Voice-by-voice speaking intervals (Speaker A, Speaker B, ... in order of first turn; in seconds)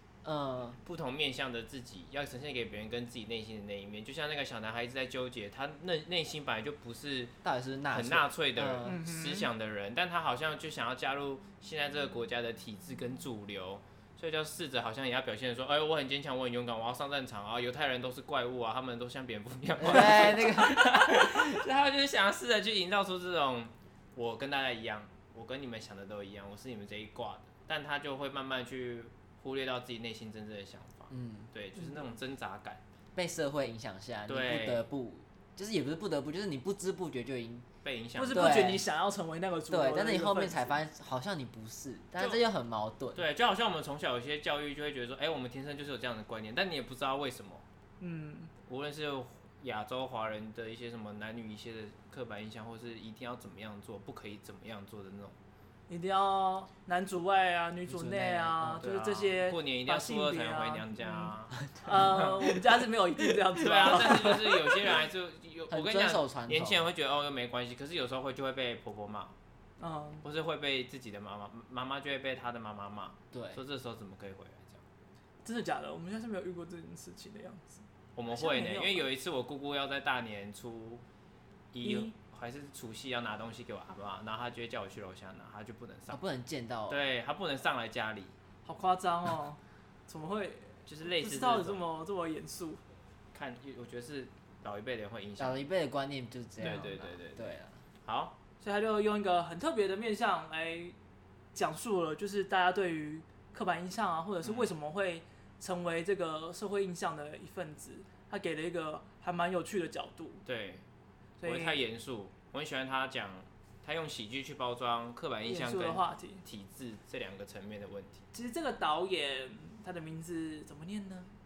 Speaker A: 0.2-0.8, 7.4-9.0, 19.8-21.4, 31.1-31.5, 33.1-37.7, 38.3-38.8, 39.7-43.2, 57.9-58.8, 63.9-64.6, 65.7-66.8, 73.3-73.6, 86.1-87.0, 95.4-97.8
Speaker B: 0.8-7.3, 7.9-32.8, 34.3-34.9, 37.8-38.8, 43.1-47.6, 48.7-55.4, 58.8-61.6, 63.6-69.3, 70.2-74.8, 78.2-81.0, 81.7-86.2, 86.9-88.3, 90.9-91.8, 93.3-95.6, 96.6-97.5, 98.0-98.3, 104.4-104.7, 110.5-110.8, 111.4-118.2
Speaker C: 8.8-9.5, 31.8-32.1, 38.2-40.8, 48.0-48.5, 55.9-64.4, 69.8-70.2, 75.4-79.1, 81.8-82.1, 88.7-92.8, 98.6-101.0, 101.5-110.4, 111.4-111.8, 115.5-116.4, 118.3-121.3